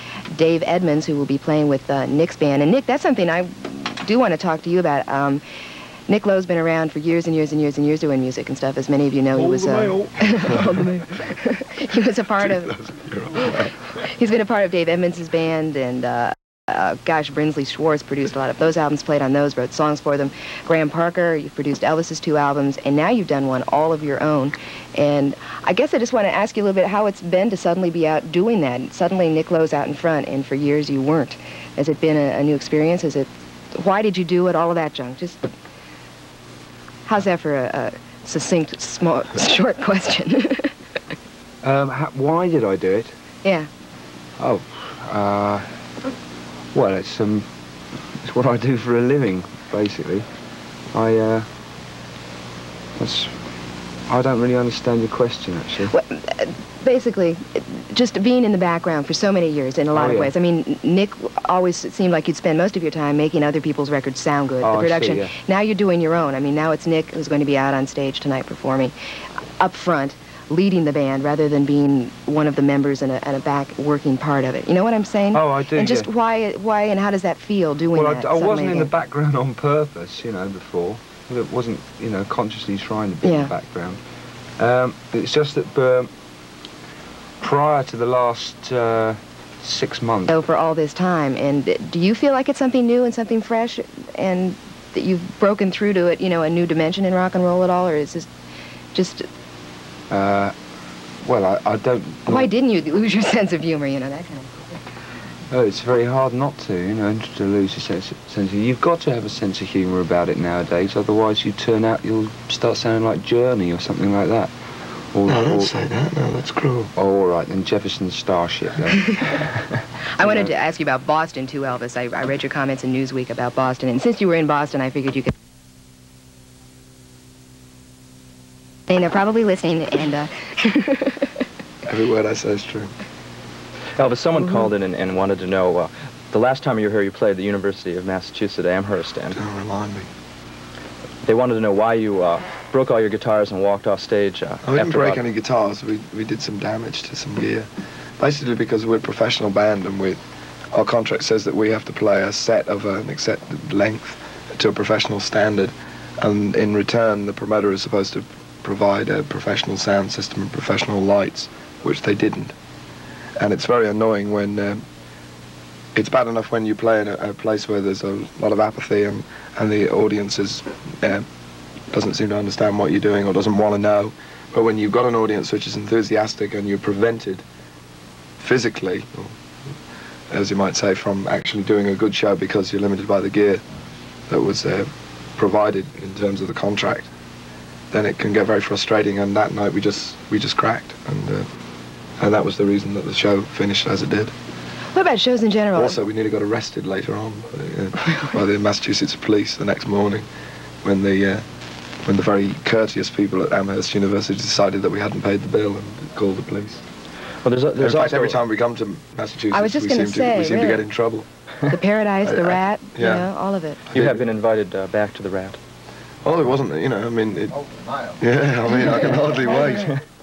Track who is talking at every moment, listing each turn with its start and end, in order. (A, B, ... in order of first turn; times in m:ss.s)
0:00.3-0:05.4 A
0:06.1-0:12.7 A
0:09.4-0:10.0 B
0:12.4-0:13.8 C
0:13.4-0:35.5 A
0:37.0-0:40.7 A
0:41.6-0:43.1 B
0:44.4-0:45.6 B
0:46.7-0:47.5 B
0:48.2-0:50.3 B
0:50.9-0:51.5 B
0:53.0-0:53.3 B
0:54.1-0:55.9 B
0:55.9-1:08.9 A
0:59.9-1:00.3 B
1:04.6-1:05.3 B
1:09.6-1:18.9 A
1:15.3-1:16.1 B
1:17.9-1:24.0 B
1:23.2-1:23.5 A
1:24.6-1:26.1 B
1:27.4-1:30.3 B
1:30.3-1:38.3 A
1:38.9-1:39.2 A
1:40.1-1:40.5 B
1:41.2-1:42.5 B
1:42.3-1:44.8 A
1:45.5-1:54.5 B
1:55.1-1:55.7 B
1:55.2-1:56.9 C
1:57.0-1:59.5 B
2:00.2-2:05.3 A
2:00.2-2:00.5 B
2:08.9-2:11.3 A
2:11.8-2:12.9 C
2:14.0-2:19.4 D
2:19.3-2:20.1 C
2:21.2-2:25.2 D
2:24.6-2:27.7 C
2:28.2-2:30.2 C
2:30.7-2:42.6 C
2:43.4-2:44.8 C
2:45.9-2:51.2 C
2:51.9-2:57.4 C
2:58.4-2:59.3 C
3:00.3-3:03.6 C
3:04.3-3:07.1 C
3:07.9-3:11.5 C
3:12.2-3:14.3 C
3:14.9-3:16.0 A
3:15.7-3:20.2 C
3:20.8-3:21.4 C
3:22.0-3:26.8 C
3:27.4-3:28.4 D
3:27.8-3:31.3 C
3:29.5-3:30.8 A
3:31.7-3:33.8 A
3:32.2-3:33.3 C
3:33.9-3:34.2 C
3:33.9-3:35.6 D
3:36.2-3:37.6 C
3:38.2-3:39.9 C
3:38.7-3:39.9 A